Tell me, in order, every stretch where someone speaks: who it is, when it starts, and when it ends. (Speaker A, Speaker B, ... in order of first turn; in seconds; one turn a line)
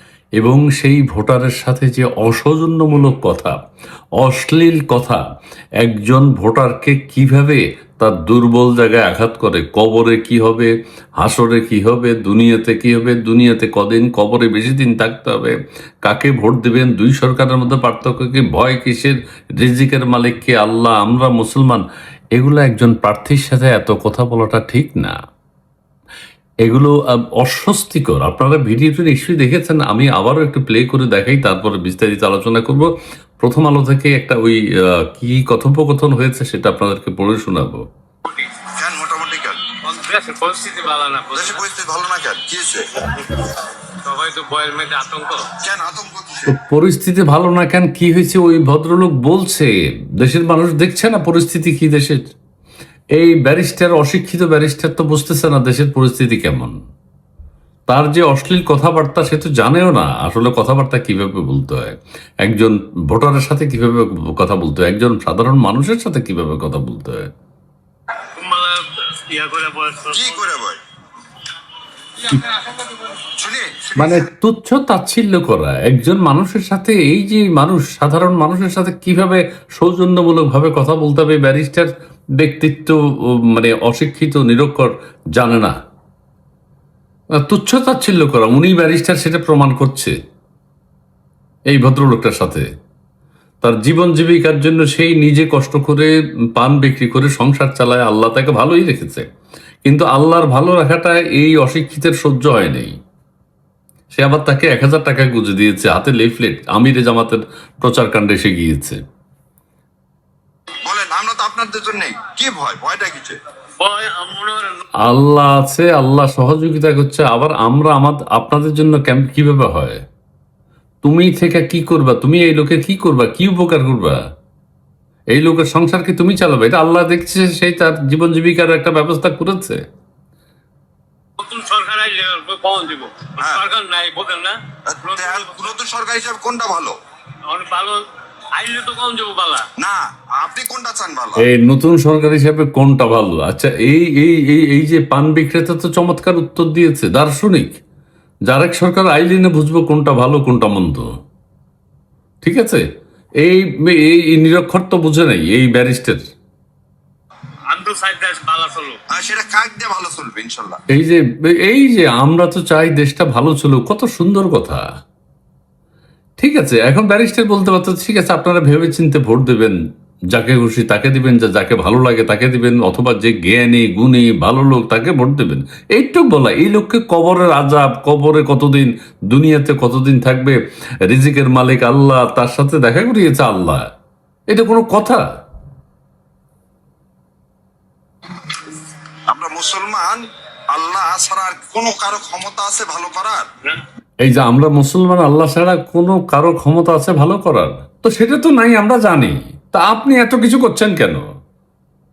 Speaker A: 0.4-3.6
Speaker A: 4.2-5.2
Speaker A: 5.8-25.2
Speaker A: 26.6-37.8
Speaker B: 38.2-38.5
Speaker C: 38.8-39.7
Speaker B: 39.8-41.6
Speaker C: 41.3-42.9
Speaker B: 43.1-45.5
Speaker C: 45.6-46.5
Speaker A: 46.5-52.2
Speaker A: 53.2-56.8
Speaker A: 57.9-67.3
Speaker B: 68.3-70.4
Speaker C: 70.1-70.8
Speaker C: 73.4-74.2
Speaker A: 74.0-85.8
Speaker A: 87.4-90.1
Speaker A: 91.7-92.7
Speaker A: 93.6-99.2
Speaker A: 99.9-102.9
Speaker A: 104.1-109.0
Speaker C: 110.8-113.4
Speaker B: 113.8-114.8
Speaker A: 115.0-120.0
Speaker A: 121.0-124.2
Speaker A: 125.3-129.8
Speaker B: 131.4-135.7
Speaker C: 134.9-136.9
Speaker B: 137.4-138.0
Speaker B: 138.6-139.7
Speaker C: 139.8-141.5
Speaker A: 141.4-147.8
Speaker A: 148.5-151.1
Speaker A: 152.4-152.8
Speaker A: 153.4-156.2
Speaker B: 157.7-159.0
Speaker C: 159.1-160.8
Speaker A: 160.9-164.8
Speaker A: 166.4-169.8
Speaker A: 170.3-183.8
Speaker A: 184.5-185.3
Speaker C: 189.3-193.5
Speaker A: 194.2-201.2